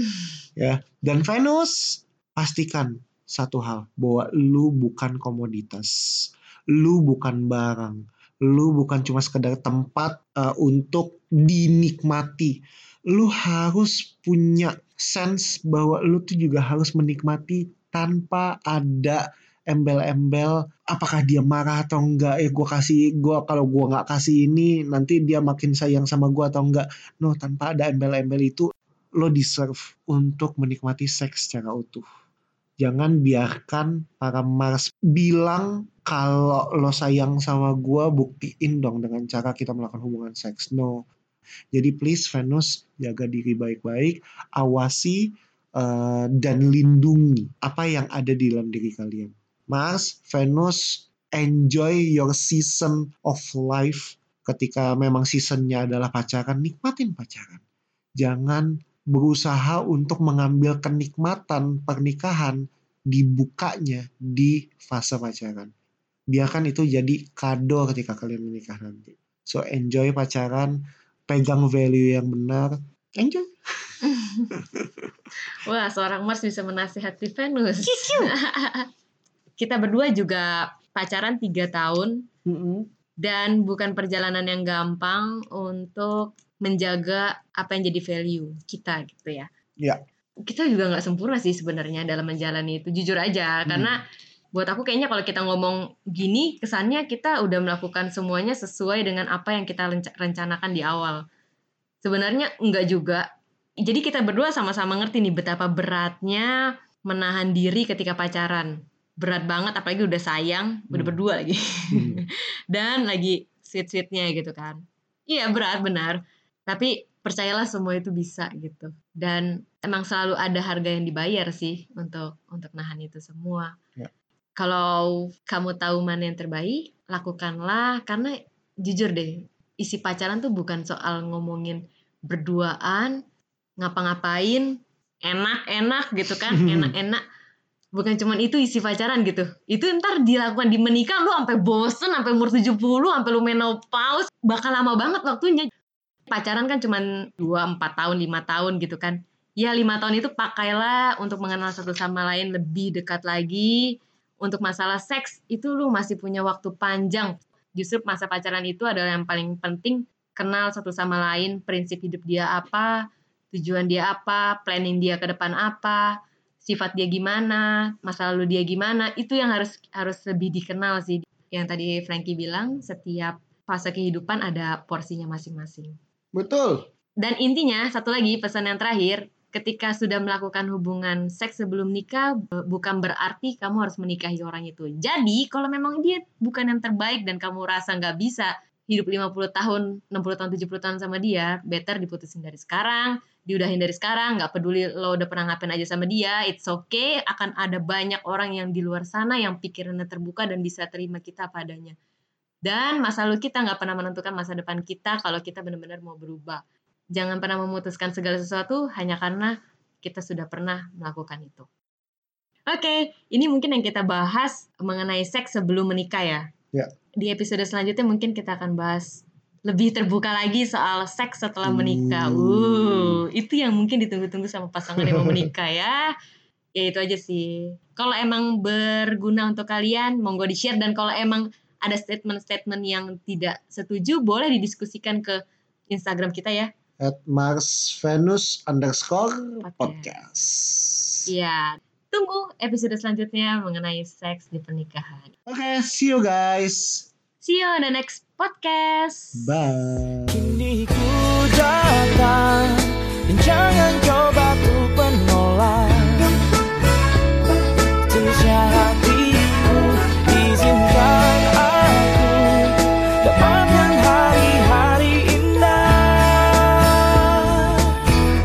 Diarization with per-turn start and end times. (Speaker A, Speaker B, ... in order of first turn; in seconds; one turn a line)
Speaker A: 0.6-32.0
Speaker A: 32.8-41.0
Speaker A: 41.7-57.6
Speaker A: 58.2-65.7
Speaker A: 66.3-73.5
Speaker B: 74.0-74.5
Speaker A: 74.6-74.9
Speaker B: 75.6-78.9
Speaker A: 77.9-78.3
Speaker B: 79.6-82.2
Speaker A: 82.5-82.9
Speaker B: 83.2-89.5
Speaker B: 90.4-94.0
Speaker A: 93.7-94.0
Speaker B: 94.5-101.2
Speaker B: 102.0-103.2
Speaker B: 103.8-123.7
Speaker A: 111.9-112.2
Speaker B: 124.6-133.2
Speaker B: 133.8-137.2
Speaker A: 136.5-136.9
Speaker B: 137.9-145.7
Speaker B: 146.3-176.0
Speaker A: 176.3-176.9
Speaker B: 177.2-201.9
Speaker B: 202.6-206.6
Speaker B: 207.1-211.7
Speaker B: 212.7-216.5
Speaker B: 217.2-226.1
Speaker A: 221.6-223.2
Speaker A: 225.0-225.5
Speaker B: 226.8-236.7
Speaker A: 237.0-241.3
Speaker B: 239.6-240.2
Speaker B: 241.3-245.3
Speaker A: 245.5-247.1
Speaker B: 247.4-249.4
Speaker A: 249.3-250.6
Speaker C: 250.3-256.3
Speaker C: 258.1-268.0